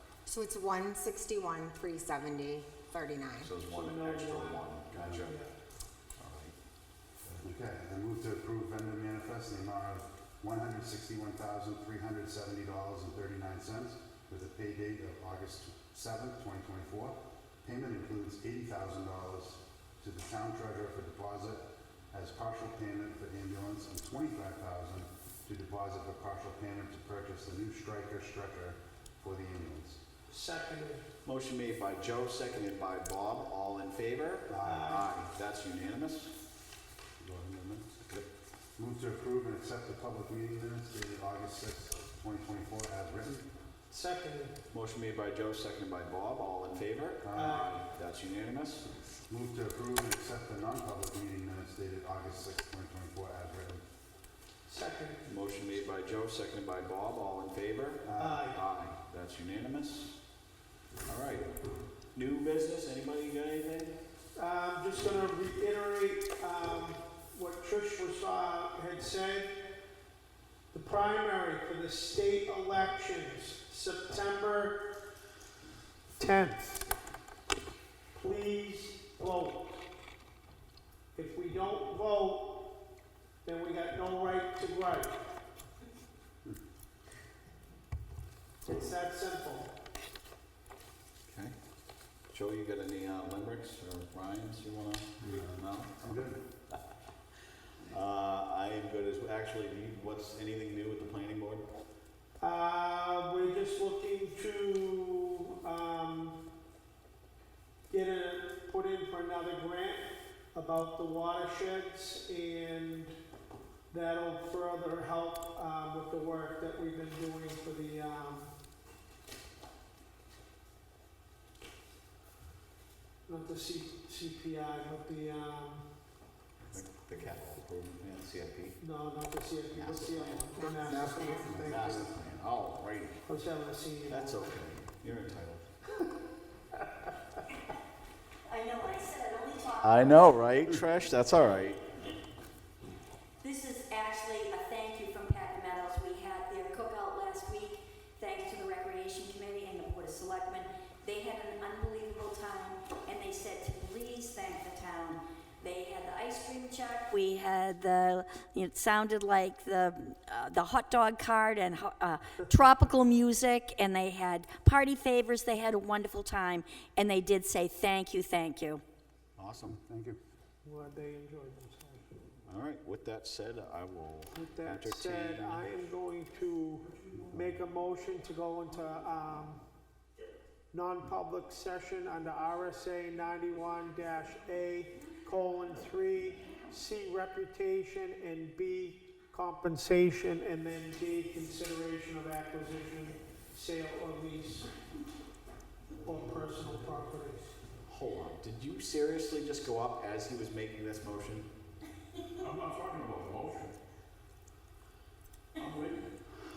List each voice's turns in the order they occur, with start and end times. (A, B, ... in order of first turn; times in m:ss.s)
0:00.3-0:03.5 A
0:03.4-0:05.4 B
0:03.6-0:05.5 C
0:04.9-0:05.3 D
0:06.2-0:06.6 B
0:07.4-0:30.0 D
0:30.3-0:31.1 C
0:31.2-0:36.3 B
0:34.5-0:34.9 D
0:34.6-0:35.1 C
0:37.2-0:38.0 D
0:38.8-0:43.5 D
0:43.9-0:44.6 C
0:44.7-0:48.9 B
0:47.2-0:47.6 D
0:47.4-0:47.7 C
0:49.3-0:53.8 D
0:54.7-0:55.2 C
0:55.2-1:00.1 B
0:58.0-0:58.4 D
0:58.2-0:58.6 C
1:01.1-1:01.5 B
1:02.1-1:04.0 B
1:04.4-1:09.7 C
1:10.7-1:14.9 C
1:16.2-1:16.9 C
1:18.1-1:19.8 C
1:21.1-1:22.8 C
1:23.4-1:25.1 C
1:28.6-1:29.7 C
1:31.3-1:31.6 B
1:32.3-1:36.8 B
1:35.2-1:36.4 D
1:37.8-1:41.7 B
1:42.4-1:46.4 C
1:47.9-1:53.2 C
1:53.9-1:58.5 C
2:03.3-2:05.9 C
2:06.7-2:08.8 B
2:08.8-2:12.1 C
2:09.7-2:13.2 B
2:11.4-2:12.2 D
2:13.2-2:14.5 C
2:14.1-2:15.7 B
2:18.5-2:20.3 E
2:19.8-2:21.8 B
2:23.4-2:48.8 E
2:49.4-2:49.8 B
2:49.6-2:50.2 D
2:50.6-2:52.2 C
2:52.4-2:55.9 B
2:54.3-2:59.6 C
2:57.0-2:57.4 F
2:57.2-2:57.6 D
3:00.7-3:14.7 C
3:16.0-3:17.5 C
3:17.9-3:21.5 B
3:22.4-3:23.8 F
3:25.6-3:26.2 F